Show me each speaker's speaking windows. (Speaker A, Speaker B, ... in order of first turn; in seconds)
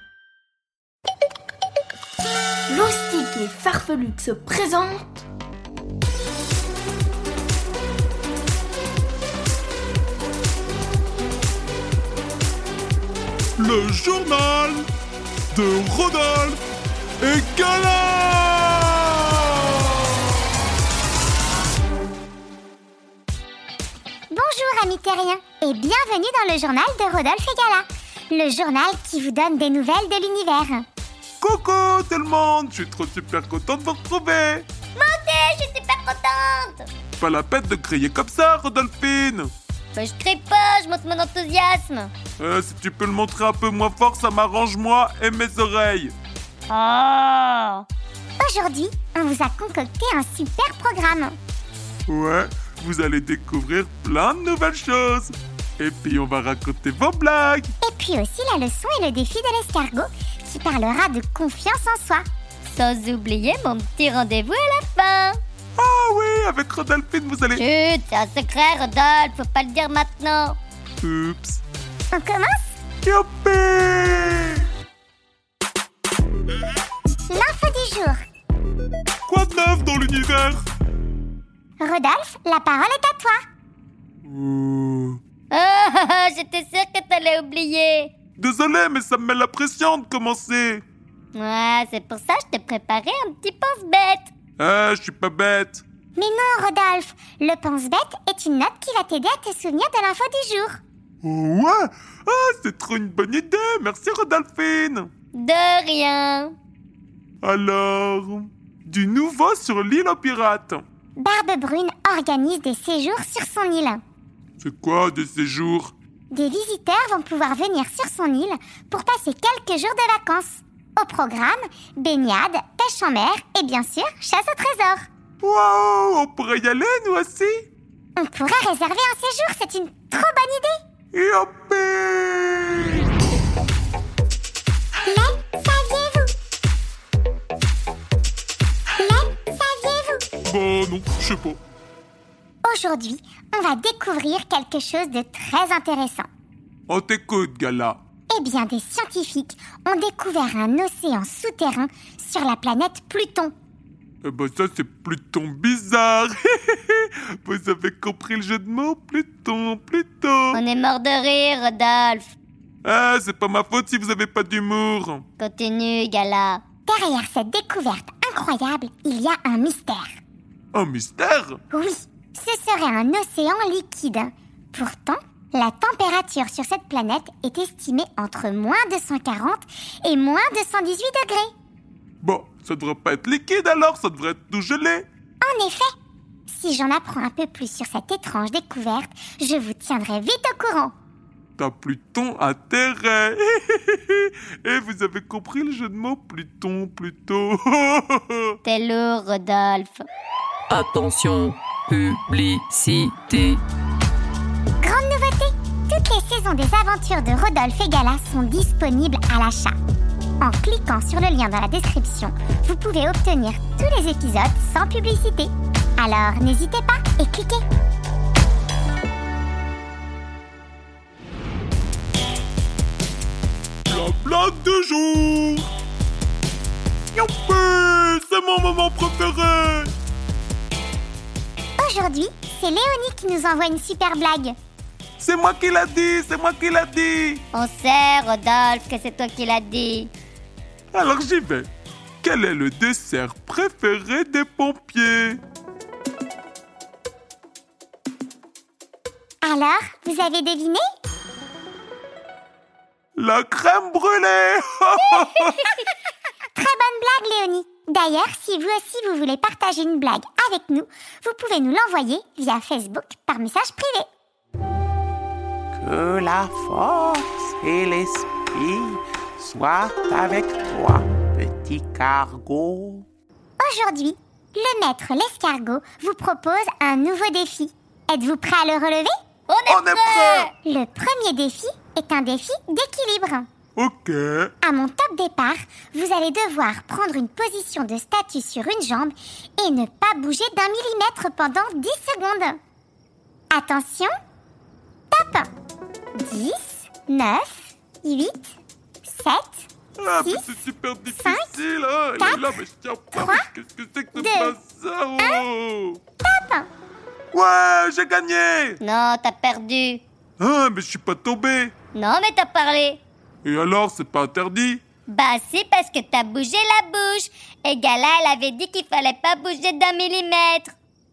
Speaker A: 2.7-5.2
Speaker B: 13.6-14.9, 15.5-16.6, 17.2-19.9, 31.4-34.7, 37.2-39.5, 42.4-46.1, 52.1-57.7, 65.8-67.6, 71.0-71.6, 73.0-74.7, 79.3-80.6, 84.2-85.2, 88.4-90.8, 94.6-95.8, 101.2-105.1, 107.4-110.8, 114.6-115.9, 125.4-127.6, 131.1-133.1, 140.4-141.6, 146.9-148.0, 154.2-160.6, 162.8-165.2, 170.7-171.6, 182.2-185.1, 191.6-198.6, 223.9-225.7, 227.1-229.9, 235.2-237.4, 240.9-241.7, 242.2-245.4, 253.2-255.8, 279.7-280.5, 283.8-284.5, 300.0-306.0, 307.3-308.8, 310.4-311.7, 313.4-314.8
Speaker C: 24.3-30.9, 48.4-51.4, 57.8-62.2, 72.1-72.8, 77.3-78.2, 81.8-83.4, 96.2-100.8, 111.2-114.0, 116.3-125.1, 128.2-130.7, 135.0-136.3, 139.0-140.2, 142.6-146.3, 148.3-153.5, 166.9-170.1, 171.7-181.5, 185.4-185.9, 186.5-190.9, 204.8-209.7, 210.4-217.6, 231.8-234.6, 249.4-250.8, 256.6-264.1, 273.6-279.1, 280.6-283.5, 284.6-292.6, 293.5-294.1, 295.1-295.5, 296.2-298.5, 299.0-299.7, 301.1-301.5, 302.2-302.5, 303.1-303.4, 304.1-304.5, 306.2-306.7
Speaker D: 34.9-36.9, 39.9-42.1, 46.7-47.9, 62.6-65.4, 67.5-70.6, 85.5-88.1, 91.3-94.3, 105.3-106.5, 160.5-162.3, 165.4-166.6, 198.6-200.0, 237.5-240.1, 279.5-280.5, 308.8-310.0, 311.9-313.0, 315.1-320.7
Speaker E: 200.7-203.6
Speaker F: 265.7-273.1